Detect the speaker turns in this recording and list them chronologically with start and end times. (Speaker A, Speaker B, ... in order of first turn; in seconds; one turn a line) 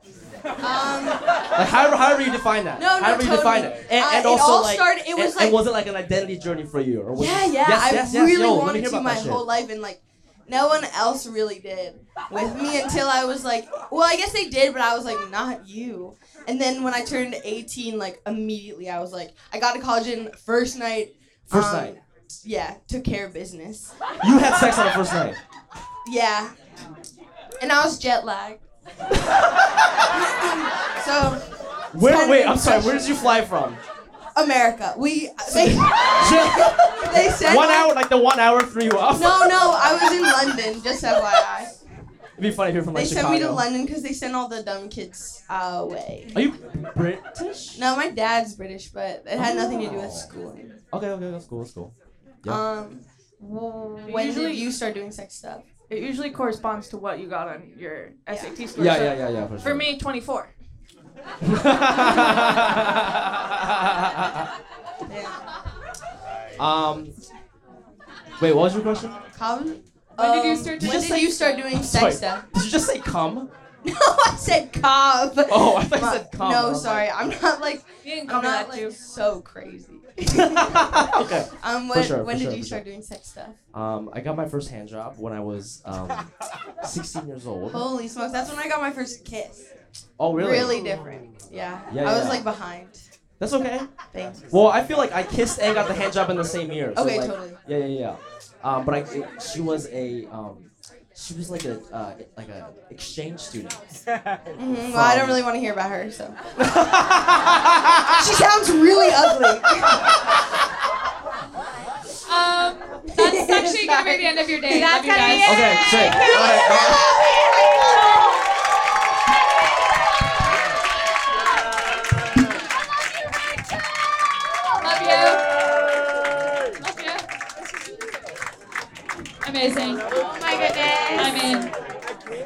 Speaker A: 0.6-1.2
Speaker B: 1.5-9.4
Speaker A: 2.8-5.6
Speaker A: 7.1-24.1
Speaker B: 21.5-22.0
Speaker B: 24.2-25.4
Speaker A: 26.0-26.5
Speaker A: 27.6-28.6
Speaker A: 30.1-33.4
Speaker B: 31.9-33.8
Speaker A: 34.3-37.9
Speaker B: 35.5-39.7
Speaker A: 39.1-41.7
Speaker B: 42.4-43.6
Speaker A: 42.9-46.4
Speaker B: 46.3-47.8
Speaker A: 47.7-50.8
Speaker B: 49.4-50.3
Speaker B: 50.9-52.6
Speaker A: 52.5-55.6
Speaker C: 54.0-54.7
Speaker C: 55.9-60.5
Speaker A: 58.3-58.6
Speaker B: 58.7-59.9
Speaker B: 61.4-64.5
Speaker A: 65.1-65.4
Speaker B: 66.6-67.1
Speaker B: 68.4-69.2
Speaker A: 69.3-72.5
Speaker D: 70.2-71.7
Speaker B: 70.8-73.5
Speaker A: 73.8-83.6
Speaker B: 75.5-77.1
Speaker C: 78.0-78.9
Speaker B: 80.3-82.8
Speaker B: 83.7-86.3
Speaker B: 86.8-87.8
Speaker A: 87.7-89.7
Speaker B: 90.2-90.9
Speaker A: 90.3-93.0
Speaker B: 91.9-92.5
Speaker B: 93.4-93.9
Speaker A: 94.1-94.5
Speaker B: 94.5-104.0
Speaker A: 96.9-97.6
Speaker A: 104.6-106.5
Speaker B: 104.8-105.4
Speaker B: 106.6-108.2
Speaker A: 108.1-110.0
Speaker D: 112.3-115.6
Speaker A: 113.2-114.4
Speaker E: 114.7-117.3
Speaker B: 115.4-117.0
Speaker A: 116.2-117.9
Speaker D: 124.8-125.4
Speaker D: 126.8-127.2
Speaker D: 129.4-130.0
Speaker E: 130.1-131.5
Speaker D: 131.1-131.7